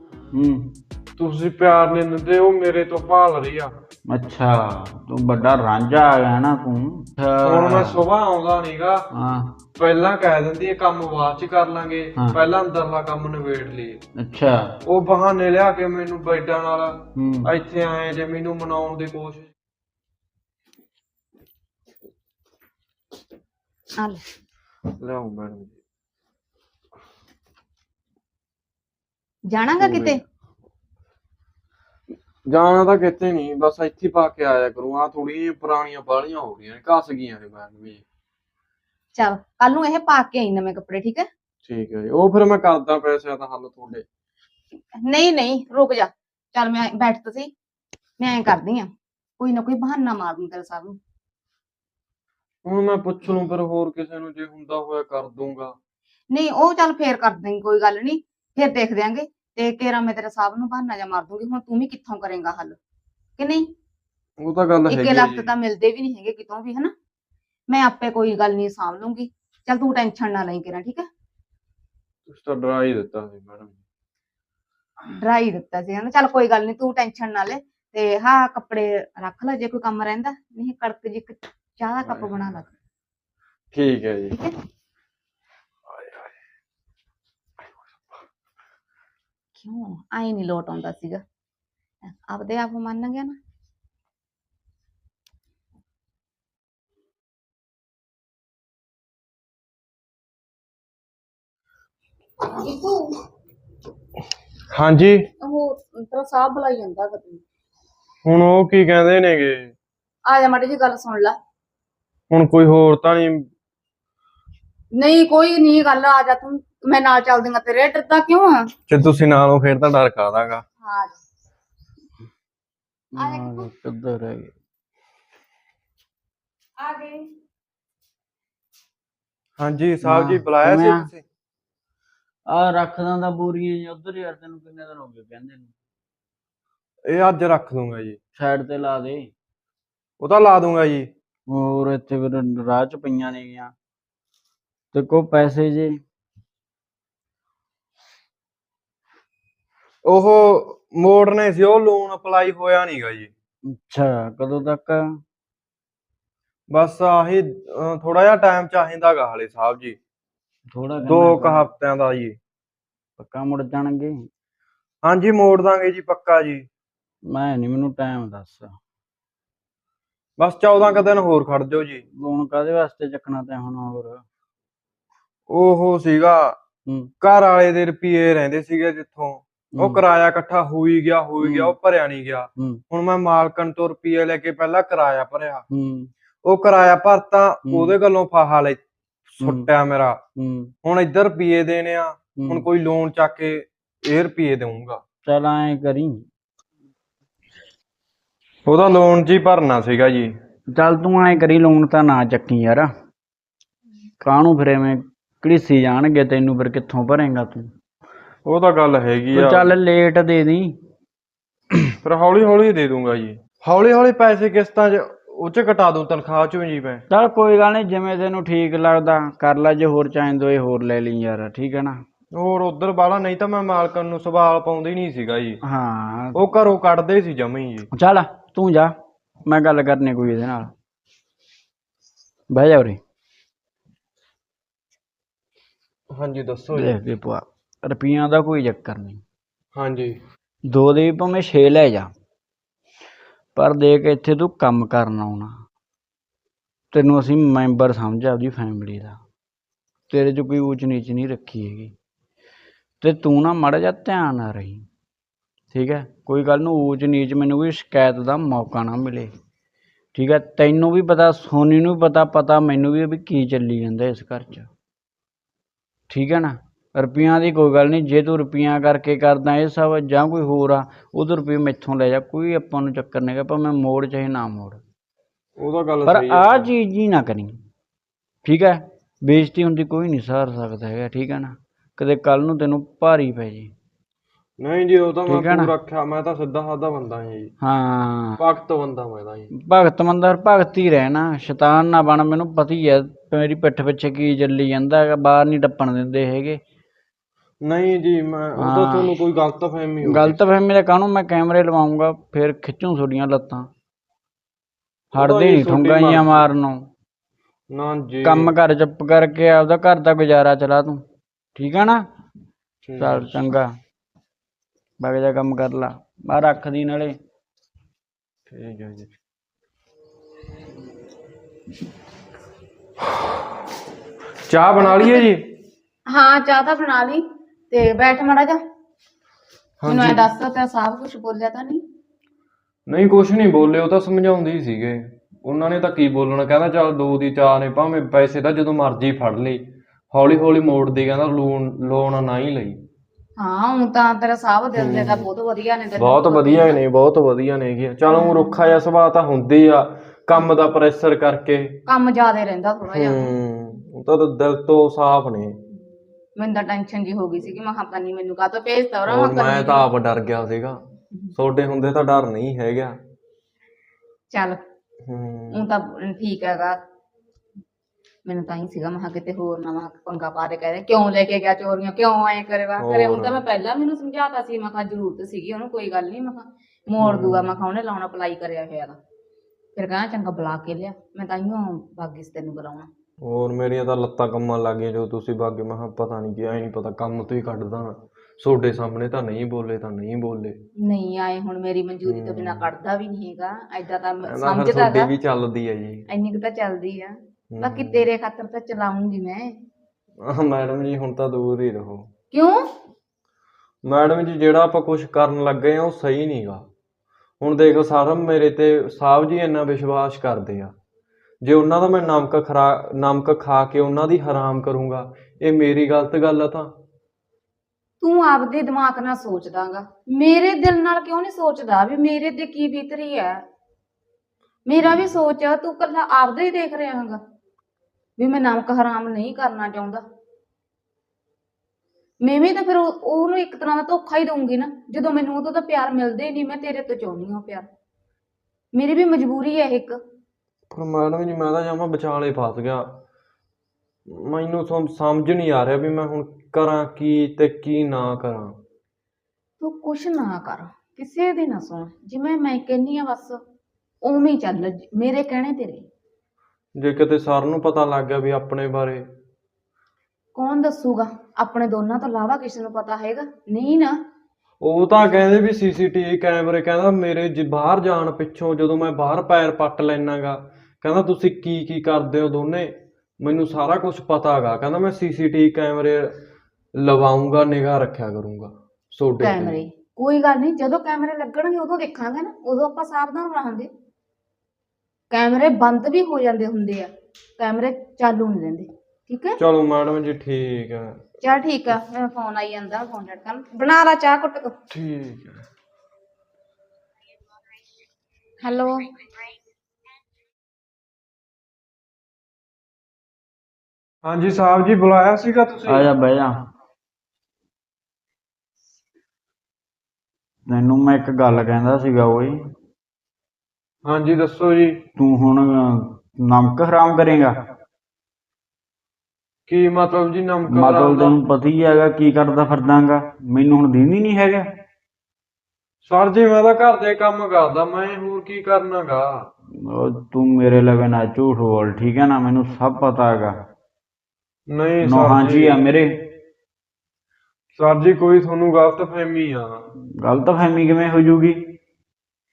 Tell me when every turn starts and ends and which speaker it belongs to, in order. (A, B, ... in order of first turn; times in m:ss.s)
0:00.3-0:00.7 A
0:01.2-0:03.7 B
0:04.0-0:08.0 A
0:07.4-0:09.0 B
0:09.1-0:09.5 A
0:09.8-0:14.0 B
0:14.2-0:14.7 A
0:14.8-0:19.5 B
0:17.2-0:17.5 A
0:24.0-0:24.2 C
0:25.0-0:25.7 B
0:29.5-0:30.2 C
0:29.8-0:30.2 B
0:32.5-0:38.0 B
0:39.1-0:41.3 C
0:41.6-0:44.0 B
0:44.9-0:47.5 C
0:48.2-0:51.0 C
0:52.6-0:55.8 B
0:56.3-1:02.8 C
1:03.4-1:03.7 C
1:04.4-1:05.5 B
1:04.9-1:06.9 C
1:07.7-1:11.1 C
1:12.3-1:13.8 B
1:15.1-1:22.7 C
1:23.7-1:24.4 B
1:25.9-1:26.3 B
1:29.6-1:31.2 C
1:32.0-1:33.4 C
1:42.4-1:43.1 C
1:44.7-1:45.3 B
1:45.4-1:47.4 C
1:48.2-1:49.7 B
1:50.2-1:51.4 C
1:52.3-1:53.5 B
1:54.9-1:58.7 C
1:58.9-2:00.6 B
2:00.8-2:01.2 C
2:03.1-2:04.5 A
2:03.2-2:03.7 C
2:06.8-2:07.3 C
2:09.6-2:11.2 B
2:10.0-2:11.1 A
2:12.5-2:15.7 A
2:17.1-2:18.2 B
2:18.3-2:19.3 A
2:20.2-2:21.1 B
2:21.5-2:23.7 A
2:24.9-2:26.0 A
2:30.0-2:33.3 B
2:33.7-2:35.2 A
2:36.7-2:40.0 B
2:40.7-2:41.6 A
2:41.1-2:42.4 B
2:43.2-2:44.3 A
2:45.0-2:46.6 B
2:47.3-2:48.8 A
2:50.4-2:52.0 B
2:52.2-2:54.2 A
2:55.5-2:56.6 B
2:57.2-3:05.6 B
2:59.8-3:00.0 A
3:01.4-3:01.7 A
3:05.7-3:06.1 A
3:06.4-3:10.2 B
3:07.6-3:07.9 A
3:09.4-3:09.7 A
3:10.4-3:10.7 A
3:10.8-3:15.0 B
3:12.4-3:12.6 A
3:15.2-3:16.3 A
3:18.6-3:20.3 B
3:20.7-3:22.9 A
3:24.2-3:27.7 A
3:28.4-3:29.7 B
3:29.3-3:30.8 A
3:32.0-3:37.0 B
3:37.1-3:42.0 A
3:42.3-3:45.6 B
3:45.6-3:46.4 A
3:46.3-3:47.9 B
3:47.9-3:50.7 A
3:52.5-3:53.0 A
3:56.1-3:56.9 B
3:56.7-3:59.2 A
3:59.8-4:00.2 B
4:00.7-4:02.1 A
4:03.5-4:05.6 A
4:06.9-4:09.2 A
4:10.1-4:11.9 A
4:13.0-4:14.8 A
4:15.7-4:19.3 A
4:20.1-4:24.7 A
4:26.1-4:34.8 A
4:35.6-4:36.7 B
4:36.1-4:37.6 A
4:38.4-4:43.7 A
4:44.6-4:47.5 B
4:45.3-4:45.7 A
4:47.6-4:48.4 A
4:48.4-4:49.5 B
4:49.5-4:56.6 A
4:57.6-5:00.4 B
4:58.6-4:59.1 A
5:00.0-5:03.7 A
5:05.1-5:06.4 B
5:05.1-5:06.9 A
5:07.7-5:08.5 B
5:08.2-5:12.1 A
5:12.8-5:13.3 B
5:13.0-5:13.8 A
5:15.0-5:17.2 A
5:18.5-5:19.1 B
5:24.5-5:25.4 B
5:24.8-5:25.3 C
5:26.1-5:28.6 C
5:29.8-5:30.2 B
5:29.9-5:31.8 C
5:32.9-5:42.8 B
5:43.4-5:46.8 C
5:44.8-5:45.2 B
5:46.0-5:51.8 B
5:48.1-5:48.5 C
5:51.9-5:53.3 C
5:52.9-5:55.6 B
5:56.4-5:59.9 C
5:59.1-6:00.8 B
6:01.3-6:03.0 B
6:04.3-6:04.6 C
6:05.0-6:05.7 B
6:05.5-6:06.8 C
6:08.2-6:19.0 C
6:12.8-6:13.4 B
6:17.0-6:17.5 B
6:19.8-6:22.9 C
6:23.2-6:30.6 B
6:30.8-6:35.1 C
6:32.0-6:32.7 B
6:34.2-6:36.1 B
6:36.1-6:39.6 C
6:37.5-6:38.0 B
6:40.2-6:42.1 B
6:42.3-6:42.7 C
6:43.8-6:46.7 B
6:47.4-6:50.7 B
6:51.4-6:56.7 B
6:58.0-7:03.4 C
7:04.6-7:07.2 C
7:08.2-7:10.0 C
7:12.2-7:17.7 C
7:18.7-7:20.0 C
7:20.7-7:22.9 B
7:24.1-7:28.6 B
7:29.6-7:33.4 C
7:34.0-7:35.8 C
7:36.8-7:39.1 B
7:40.3-7:44.0 C
7:44.6-7:56.2 B
7:56.8-7:59.6 B
7:59.2-8:03.7 C
8:05.1-8:09.4 C
8:09.4-8:11.0 B
8:11.2-8:14.6 C
8:14.7-8:15.4 B
8:18.4-8:18.9 C
8:24.0-8:25.9 B
8:25.7-8:26.4 A
8:30.4-8:32.4 A
8:33.8-8:34.8 B
8:35.0-8:37.4 A
8:39.5-8:41.2 B
8:40.5-8:44.5 A
8:45.8-8:49.3 B
8:49.5-8:53.4 A
8:54.5-8:55.6 B
8:54.8-8:55.9 A
8:57.5-8:59.6 B
9:00.0-9:01.5 A